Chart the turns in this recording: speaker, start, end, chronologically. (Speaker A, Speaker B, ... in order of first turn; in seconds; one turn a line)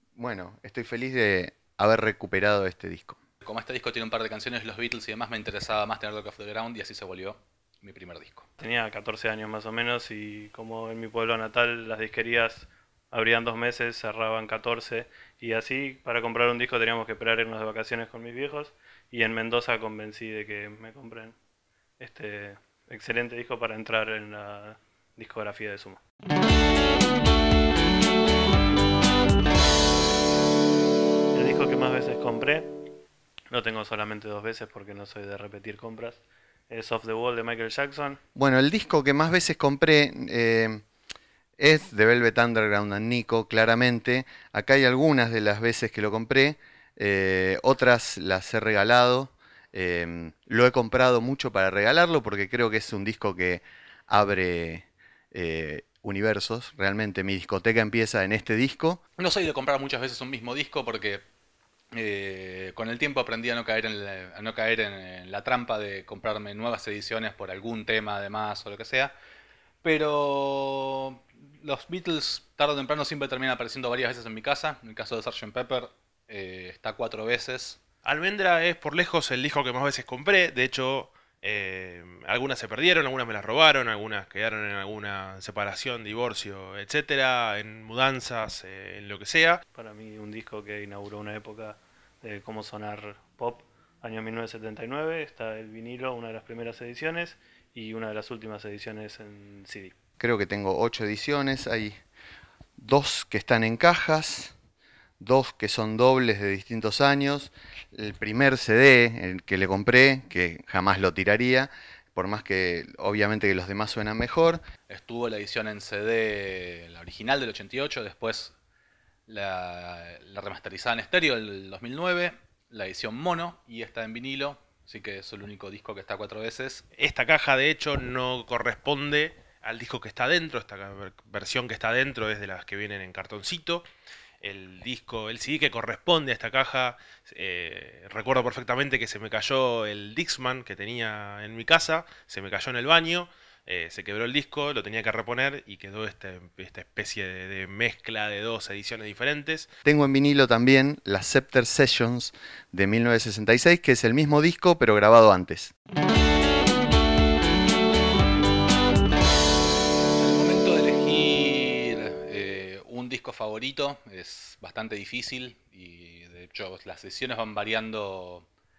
Speaker A: 0.2-3.2
Speaker B: 3.4-8.5
Speaker C: 8.6-21.4
Speaker C: 22.0-26.0
Speaker C: 31.3-32.7
Speaker C: 33.5-38.2
Speaker A: 38.4-40.8
Speaker A: 41.6-59.0
Speaker B: 59.2-61.2
Speaker B: 61.9-69.1
Speaker B: 69.8-77.8
Speaker D: 78.0-89.6
Speaker C: 89.7-99.9
Speaker A: 100.2-102.0
Speaker A: 102.8-104.5
Speaker A: 105.2-114.6
Speaker B: 114.9-118.5
Speaker B: 119.3-126.8
Speaker D: 127.0-133.9
Speaker D: 134.4-149.7
Speaker A: 149.8-155.7
Speaker B: 160.2-168.5